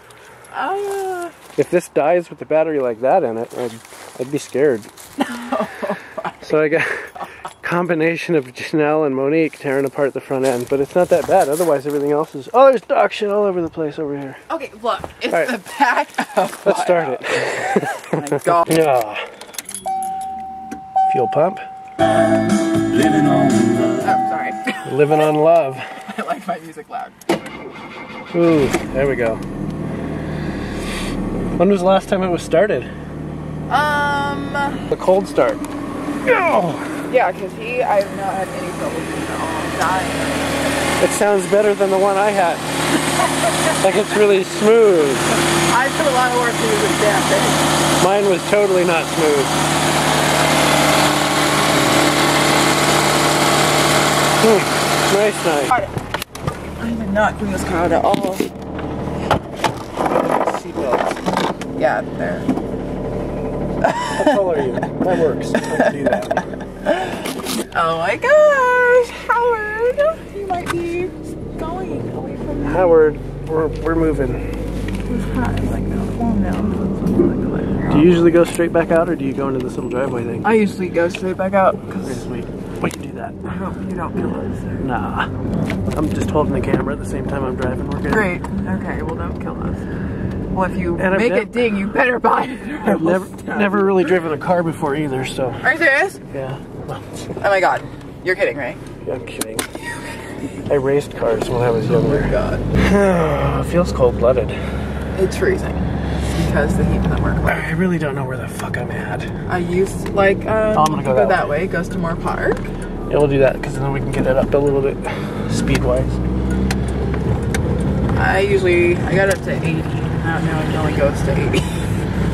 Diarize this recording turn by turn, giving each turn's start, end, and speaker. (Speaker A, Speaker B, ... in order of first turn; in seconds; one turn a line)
Speaker A: 0.5-1.4
Speaker B: 1.5-4.9
Speaker A: 5.2-6.8
Speaker B: 6.4-14.4
Speaker A: 14.5-18.7
Speaker B: 16.6-19.2
Speaker B: 21.1-21.6
Speaker A: 24.0-25.2
Speaker B: 24.9-25.9
Speaker A: 25.9-27.7
Speaker B: 28.3-29.4
Speaker B: 31.6-32.9
Speaker A: 33.7-34.9
Speaker B: 34.9-35.6
Speaker B: 36.2-37.0
Speaker A: 37.1-41.0
Speaker B: 41.0-42.7
Speaker A: 43.2-44.1
Speaker B: 43.8-45.4
Speaker A: 45.5-47.7
Speaker B: 48.0-49.6
Speaker B: 54.4-55.8
Speaker A: 55.7-55.9
Speaker A: 56.8-58.5
Speaker A: 60.2-61.1
Speaker B: 60.6-60.9
Speaker A: 61.7-62.5
Speaker A: 63.8-64.9
Speaker B: 64.1-66.5
Speaker A: 65.5-66.1
Speaker A: 66.8-73.0
Speaker B: 72.7-74.4
Speaker A: 75.0-78.3
Speaker B: 77.9-80.5
Speaker A: 80.4-82.3
Speaker B: 82.0-83.4
Speaker A: 83.4-84.9
Speaker B: 84.8-85.3
Speaker B: 85.9-88.3
Speaker A: 88.1-89.9
Speaker A: 90.5-94.0
Speaker B: 91.0-91.7
Speaker B: 92.8-95.6
Speaker A: 95.6-96.2
Speaker B: 96.3-97.0
Speaker A: 97.4-98.8
Speaker B: 99.0-99.7
Speaker B: 100.7-104.6
Speaker A: 101.8-102.7
Speaker A: 105.1-107.7
Speaker B: 107.5-109.3
Speaker A: 109.5-112.7
Speaker B: 110.7-111.4
Speaker B: 113.1-116.2
Speaker A: 118.1-122.0